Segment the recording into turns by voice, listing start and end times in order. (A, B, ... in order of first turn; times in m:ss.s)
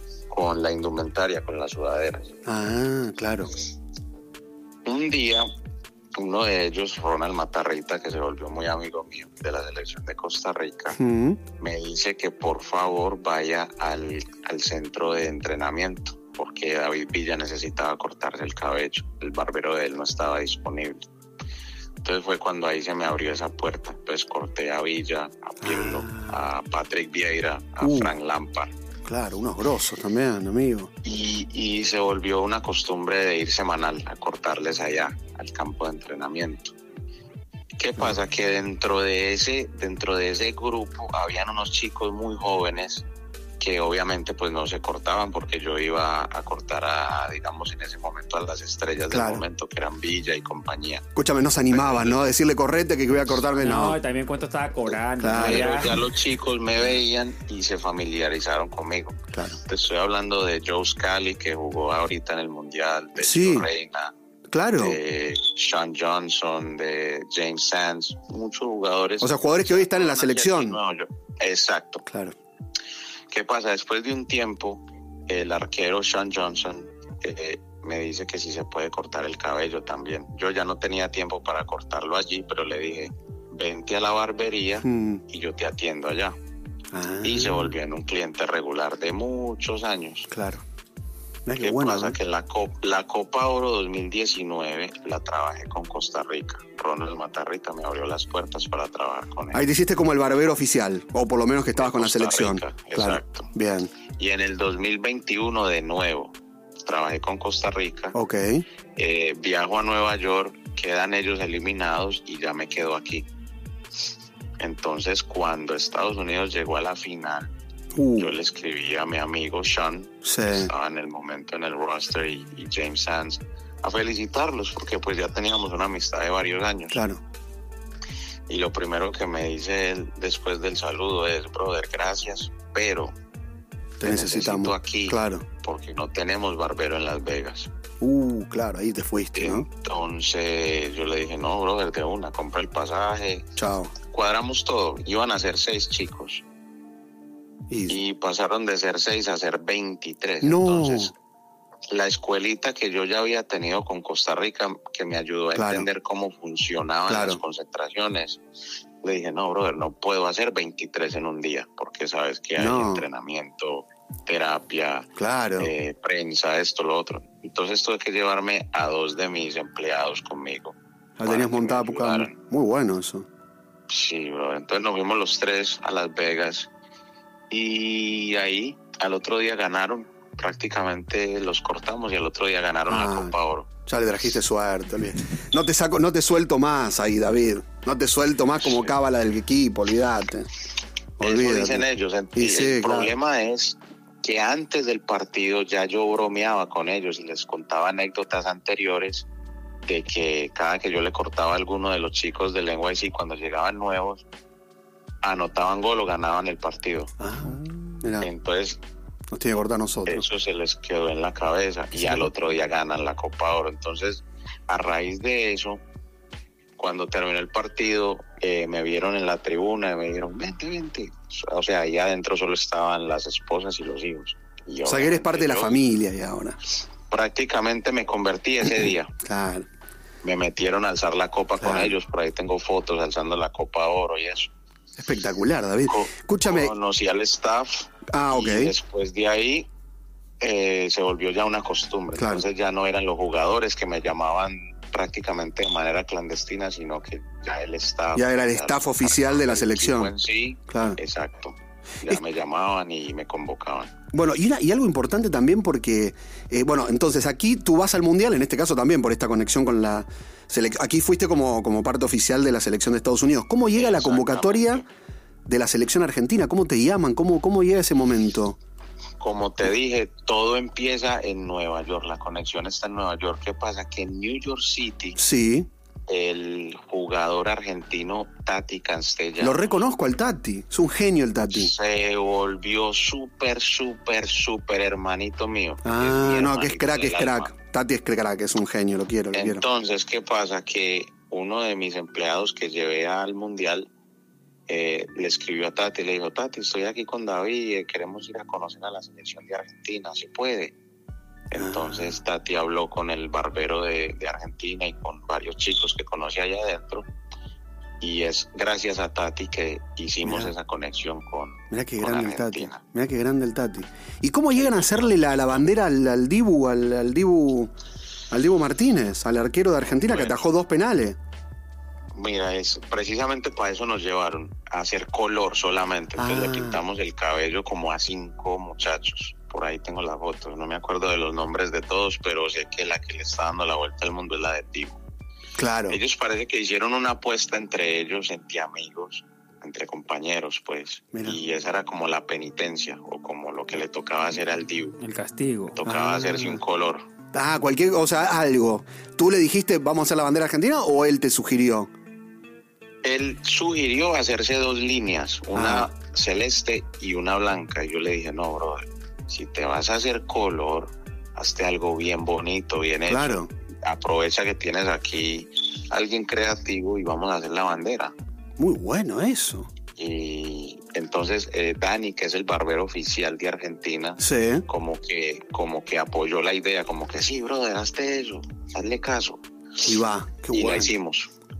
0:00.3-0:02.3 A
0:02.4-0:03.5 B
0:04.8-0:05.5 A
0:06.2-0:11.0 A
0:10.9-0:11.4 B
0:11.6-0:21.0 A
0:22.0-0:28.7 A
0:25.6-0:26.5 B
0:27.8-0:28.1 B
0:29.0-0:30.9 B
0:31.0-0:36.7 A
0:37.8-0:43.0 A
0:43.6-0:51.0 A
0:49.1-0:49.4 B
0:51.2-0:54.0 B
0:51.7-0:52.2 A
0:53.6-0:56.0 C
0:55.2-0:56.1 B
0:55.3-1:04.1 A
0:59.3-0:59.6 B
1:03.2-1:03.7 B
1:04.5-1:05.0 B
1:04.8-1:12.0 A
1:09.2-1:10.8 B
1:12.0-1:12.3 B
1:13.3-1:26.3 A
1:24.8-1:25.2 B
1:26.9-1:27.7 B
1:27.2-1:30.3 A
1:30.3-1:30.6 B
1:31.4-1:32.2 B
1:31.6-1:39.6 A
1:39.5-1:43.9 B
1:41.8-1:43.5 A
1:44.1-1:46.3 A
1:46.8-1:48.1 A
1:48.1-1:48.6 B
1:49.0-1:53.2 A
1:54.6-1:57.5 A
1:57.9-1:58.3 B
1:58.2-2:07.0 A
2:00.2-2:00.7 B
2:06.9-2:07.2 B
2:08.5-2:13.1 A
2:14.0-2:15.4 B
2:14.0-2:17.7 A
2:18.0-2:19.7 B
2:19.4-2:23.5 A
2:23.6-2:23.9 B
2:24.0-2:26.4 A
2:27.7-2:28.0 B
2:27.9-2:31.1 A
2:30.4-2:31.1 B
2:31.9-2:38.4 A
2:35.5-2:35.9 B
2:37.1-2:37.4 B
2:39.0-2:52.3 A
2:42.6-2:43.0 B
2:45.2-2:45.7 B
2:51.2-2:53.3 B
2:53.9-2:56.7 A
2:57.5-3:03.7 A
3:02.9-3:03.3 B
3:03.8-3:10.5 B
3:11.2-3:13.1 B
3:11.2-3:19.2 A
3:19.8-3:24.2 A
3:25.2-3:27.1 A
3:27.2-3:28.3 B
3:28.2-3:28.8 A
3:29.3-3:30.2 B
3:30.1-3:35.8 A
3:31.9-3:32.3 B
3:36.8-3:45.8 A
3:44.8-3:46.6 B
3:47.1-3:49.1 A
3:48.6-3:49.7 B
3:50.2-3:54.5 A
3:51.6-3:51.9 B
3:55.0-3:56.7 B
3:55.9-3:59.7 A
3:58.1-3:58.7 B
4:00.4-4:13.9 A
4:02.2-4:02.4 B
4:08.1-4:10.1 B
4:10.7-4:11.0 B
4:14.1-4:24.8 B
4:23.7-4:24.8 A
4:25.4-4:28.6 B
4:29.2-4:35.2 A
4:35.2-4:35.7 B
4:36.1-4:39.7 A
4:39.4-4:41.7 B
4:41.5-4:47.5 A
4:45.8-4:49.6 B
4:49.3-4:53.9 A
4:54.7-5:00.7 A
5:01.5-5:07.1 A
5:01.5-5:02.2 B
5:08.0-5:12.8 A
5:10.2-5:10.5 B
5:11.7-5:17.7 B
5:14.6-5:15.6 A
5:18.3-5:21.2 B
5:20.0-5:20.4 A
5:22.1-5:35.0 A
5:26.2-5:26.8 B
5:35.6-5:36.0 B
5:35.9-5:45.0 A
5:41.1-5:41.4 B
5:45.0-5:45.8 C
5:45.7-5:47.1 A
5:45.8-5:46.6 B
5:47.3-5:51.9 B
5:53.0-6:08.1 A
5:55.5-5:55.9 B
6:03.1-6:03.5 B
6:08.6-6:09.7 B
6:10.0-6:19.9 A
6:14.2-6:14.6 B
6:19.8-6:20.9 B
6:20.5-6:21.3 A